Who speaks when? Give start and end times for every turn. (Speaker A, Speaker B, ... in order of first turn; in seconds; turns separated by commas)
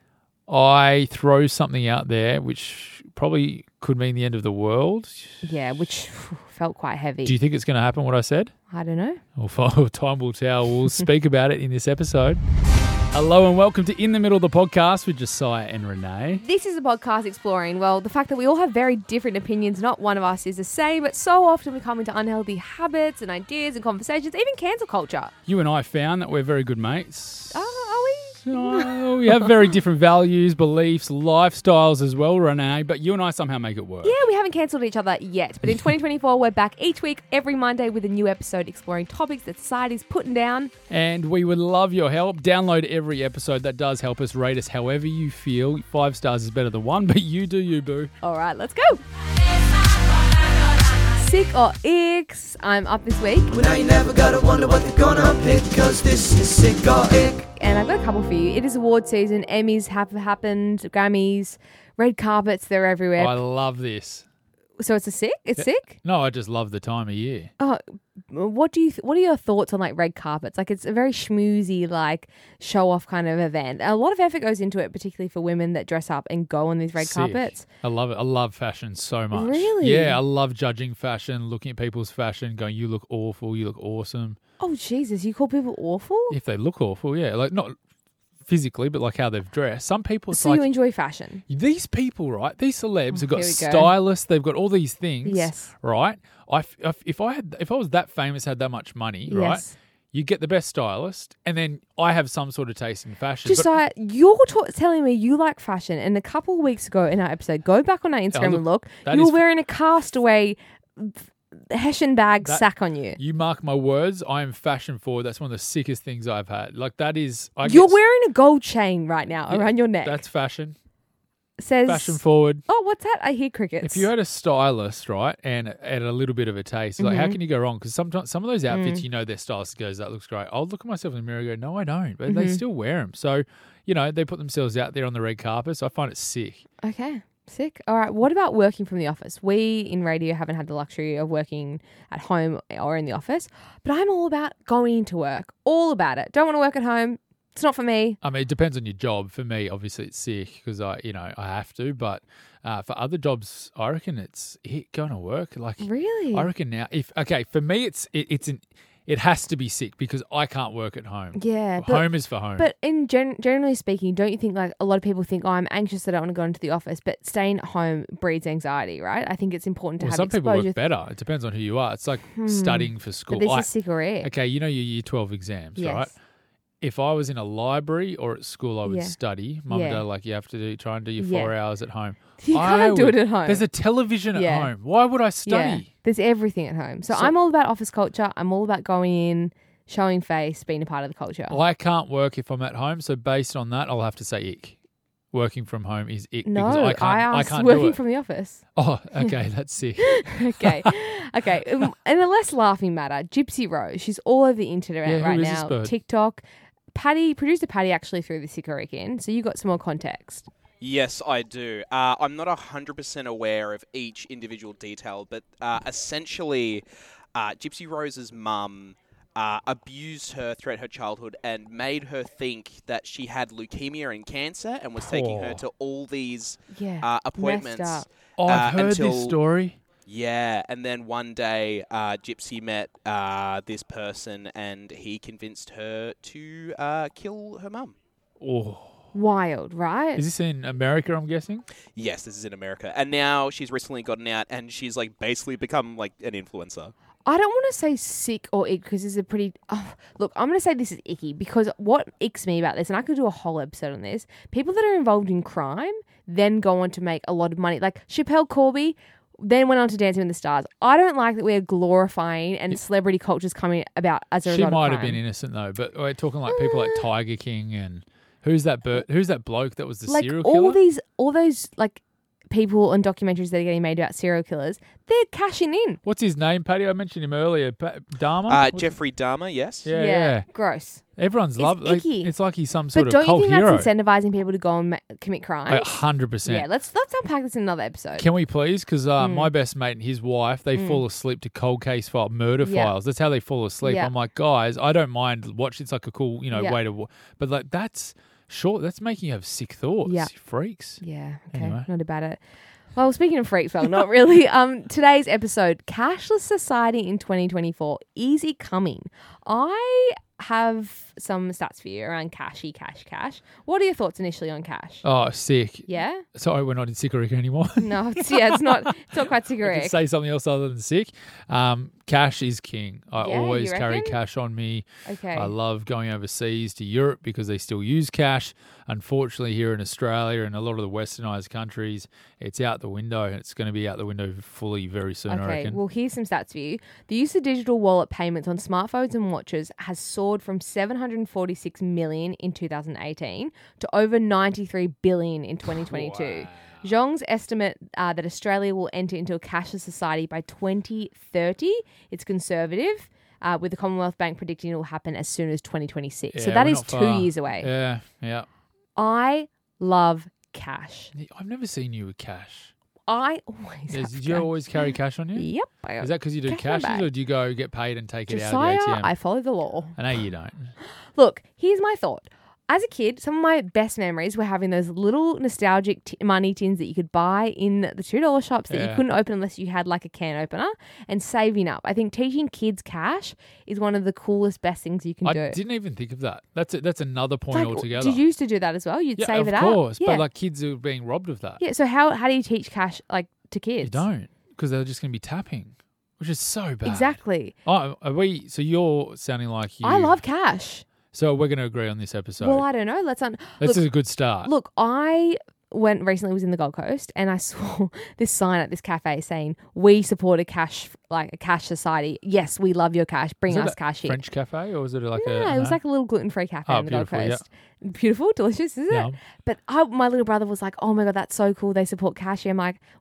Speaker A: 0.5-5.5, Speaker B: 5.4-7.4, Speaker A: 7.2-8.5, Speaker B: 8.7-9.2, Speaker A: 9.4-12.4, Speaker A: 13.1-16.4, Speaker B: 16.4-25.3, Speaker A: 25.5-27.7, Speaker B: 27.5-29.5, Speaker A: 28.4-34.2, Speaker B: 34.0-40.7, Speaker A: 40.9-48.1, Speaker B: 48.2-49.0, Speaker B: 51.1-54.1, Speaker C: 53.8-57.0, Speaker B: 56.8-63.4, Speaker A: 63.2-64.3, Speaker B: 64.8-66.0, Speaker A: 65.6-67.5, Speaker B: 67.6-77.7, Speaker A: 77.0-84.4, Speaker B: 79.3-80.2, Speaker B: 84.6-86.4, Speaker A: 86.3-87.8, Speaker A: 88.5-90.7, Speaker B: 90.3-91.4, Speaker A: 91.5-103.7, Speaker B: 93.1-93.9, Speaker B: 95.2-95.7, Speaker B: 99.3-99.8, Speaker B: 103.5-113.2, Speaker A: 108.3-109.5, Speaker A: 112.4-118.0, Speaker B: 117.6-120.2, Speaker A: 119.5-120.8, Speaker B: 121.6-124.1, Speaker A: 121.9-122.6, Speaker A: 123.8-136.6, Speaker B: 127.0-127.4, Speaker B: 128.7-129.1, Speaker B: 132.3-132.6, Speaker B: 136.8-148.2, Speaker A: 148.2-162.7, Speaker B: 155.8-156.5, Speaker B: 161.4-170.8, Speaker A: 170.0-173.7, Speaker B: 172.3-174.3, Speaker A: 174.2-176.2, Speaker B: 175.8-176.2, Speaker A: 176.8-185.9, Speaker B: 178.8-179.2, Speaker B: 179.7-180.0, Speaker B: 181.2-181.5, Speaker B: 182.4-183.6, Speaker B: 184.3-184.7, Speaker B: 185.5-191.6, Speaker A: 187.1-187.3, Speaker A: 191.5-194.8, Speaker A: 195.3-198.0, Speaker B: 196.4-198.6, Speaker A: 198.8-200.9, Speaker B: 200.0-206.4, Speaker A: 205.1-205.9, Speaker B: 206.9-210.5, Speaker D: 210.8-216.8, Speaker D: 217.3-229.4, Speaker A: 225.0-225.7, Speaker B: 226.7-228.1, Speaker A: 228.4-229.8, Speaker D: 230.1-237.9, Speaker A: 238.4-239.0, Speaker B: 239.1-240.2, Speaker A: 240.2-241.6, Speaker D: 242.0-246.9, Speaker B: 247.3-265.2, Speaker A: 264.4-270.8, Speaker B: 266.5-267.1, Speaker B: 270.1-276.0, Speaker A: 276.0-278.9, Speaker D: 278.5-279.9, Speaker A: 279.9-280.5, Speaker B: 279.9-281.0, Speaker A: 281.2-283.9, Speaker B: 281.6-282.3, Speaker B: 282.9-288.3, Speaker A: 285.7-286.7, Speaker A: 288.2-301.0, Speaker B: 289.2-289.5, Speaker B: 290.8-291.0, Speaker B: 292.6-292.9, Speaker B: 293.8-294.1, Speaker B: 296.5-296.8, Speaker B: 300.1-300.3, Speaker B: 301.0-302.4, Speaker A: 301.5-301.9, Speaker B: 302.9-315.1, Speaker A: 315.0-335.8, Speaker B: 315.9-316.2, Speaker B: 317.8-320.0, Speaker B: 323.2-324.2, Speaker B: 325.1-325.5, Speaker B: 335.3-357.7, Speaker A: 345.9-346.9, Speaker A: 356.3-358.5, Speaker B: 359.0-361.1, Speaker A: 361.1-362.7, Speaker B: 363.1-367.1, Speaker A: 363.9-365.5, Speaker A: 366.0-369.1, Speaker B: 368.3-370.0, Speaker A: 370.0-370.8, Speaker B: 370.8-385.6, Speaker A: 378.7-379.1, Speaker A: 385.2-388.2, Speaker B: 387.5-390.3, Speaker A: 389.2-391.6, Speaker B: 391.6-394.1, Speaker A: 393.8-400.2, Speaker B: 396.8-397.6, Speaker B: 399.8-400.9, Speaker A: 401.1-402.7, Speaker B: 402.4-403.9, Speaker A: 403.6-404.5, Speaker B: 404.4-414.2, Speaker A: 413.5-415.8, Speaker B: 415.2-422.8, Speaker A: 416.7-417.4, Speaker A: 418.9-419.2